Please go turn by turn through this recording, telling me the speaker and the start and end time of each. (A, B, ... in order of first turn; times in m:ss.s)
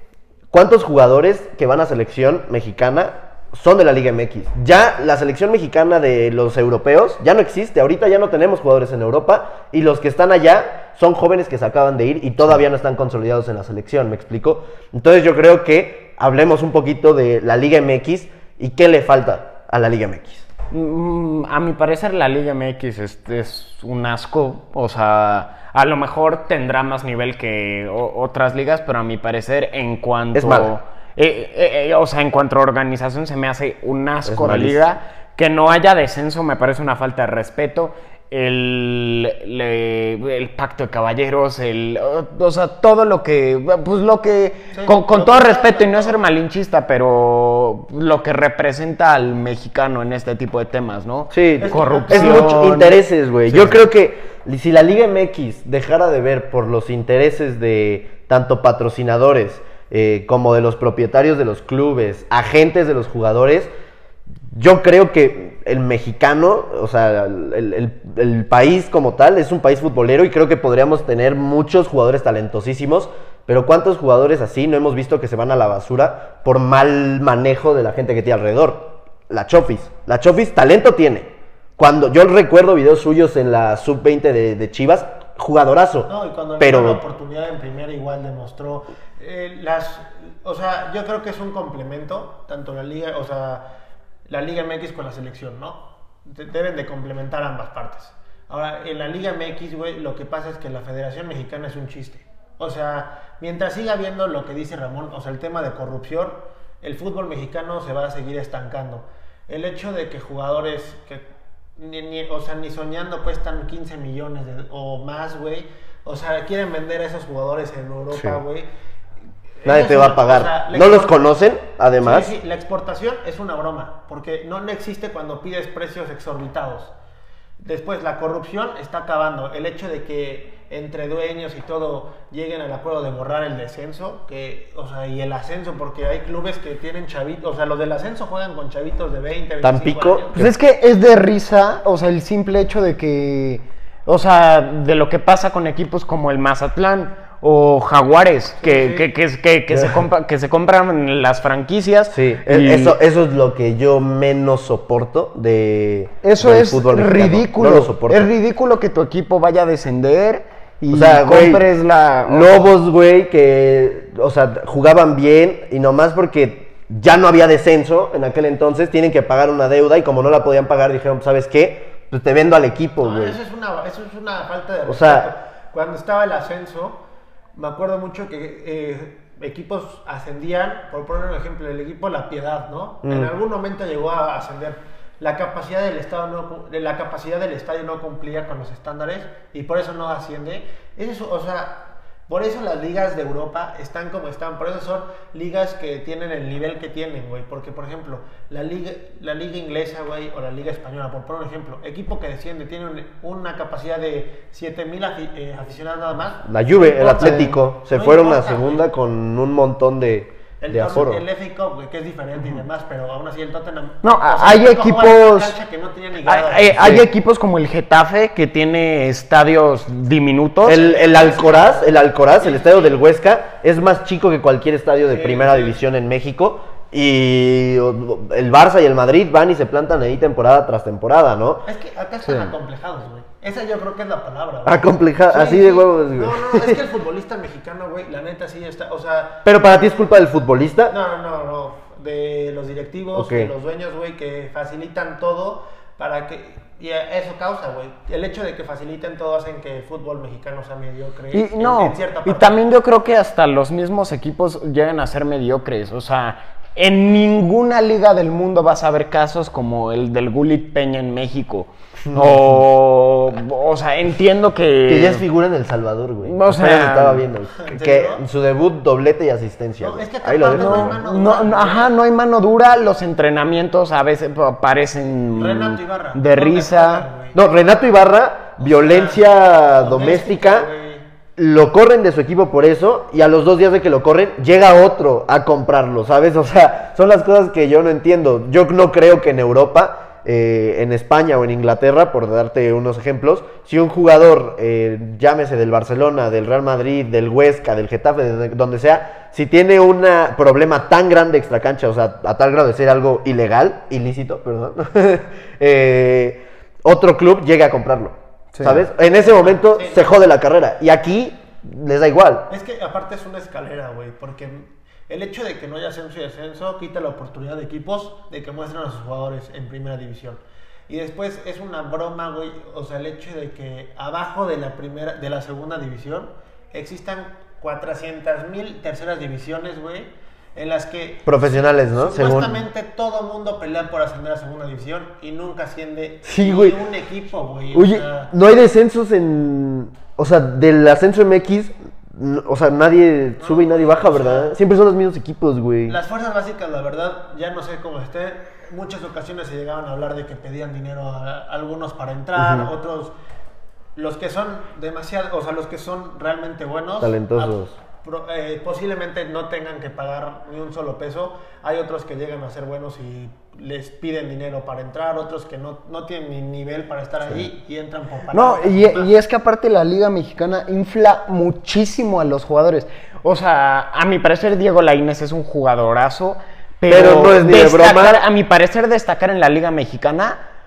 0:00.5-0:20.5 A
0:20.7-0:53.8 B
0:30.3-0:30.7 A
0:34.2-0:34.8 A
0:44.7-0:46.2 C
0:51.3-1:03.7 A
0:51.6-0:52.6 C
1:04.5-1:27.0 A
1:26.0-1:33.6 C
1:34.3-1:51.2 C
1:51.8-1:58.7 C
1:58.1-1:58.4 A
1:59.6-2:01.2 C
1:59.6-2:02.3 A
2:02.0-2:06.9 C
2:07.6-2:20.4 C
2:19.6-2:20.6 A
2:20.3-2:33.0 B
2:28.6-2:29.0 C
2:29.7-2:30.0 A
2:32.1-2:38.3 A
2:36.2-2:42.7 B
2:40.9-2:41.6 A
2:42.2-2:53.4 A
2:53.0-2:57.0 C
2:54.9-2:55.3 A
2:57.5-3:28.8 C
3:03.0-3:03.3 A
3:26.4-3:31.2 A
3:27.2-3:27.6 B
3:30.6-3:37.0 C
3:34.0-3:35.5 B
3:36.2-3:40.8 B
3:36.7-3:37.0 A
3:40.6-3:51.6 A
3:40.7-3:43.0 C
3:45.1-3:45.8 C
3:51.6-3:59.4 C
3:52.2-3:52.5 B
3:54.6-3:56.8 A
3:59.4-4:00.9 A
4:00.9-4:12.5 C
4:03.1-4:03.5 A
4:11.3-4:25.2 B
4:22.0-4:22.6 A
4:24.9-4:31.0 A
4:26.2-4:27.2 B
4:27.5-4:28.2 C
4:29.8-4:31.9 C
4:30.5-4:37.0 B
4:35.4-4:37.4 C
4:37.3-4:40.7 A
4:38.6-4:41.0 C
4:41.4-5:12.5 A
5:08.5-5:08.8 B
5:08.9-5:10.2 C
5:12.5-5:38.3 C
5:31.2-5:32.6 A
5:36.2-5:36.8 A
5:37.7-5:46.0 A
5:43.4-5:44.5 C
5:45.8-5:53.1 C
5:52.4-5:52.7 A
5:54.0-6:09.1 C
5:57.0-5:57.8 A
6:08.3-6:20.4 B
6:16.9-6:18.2 A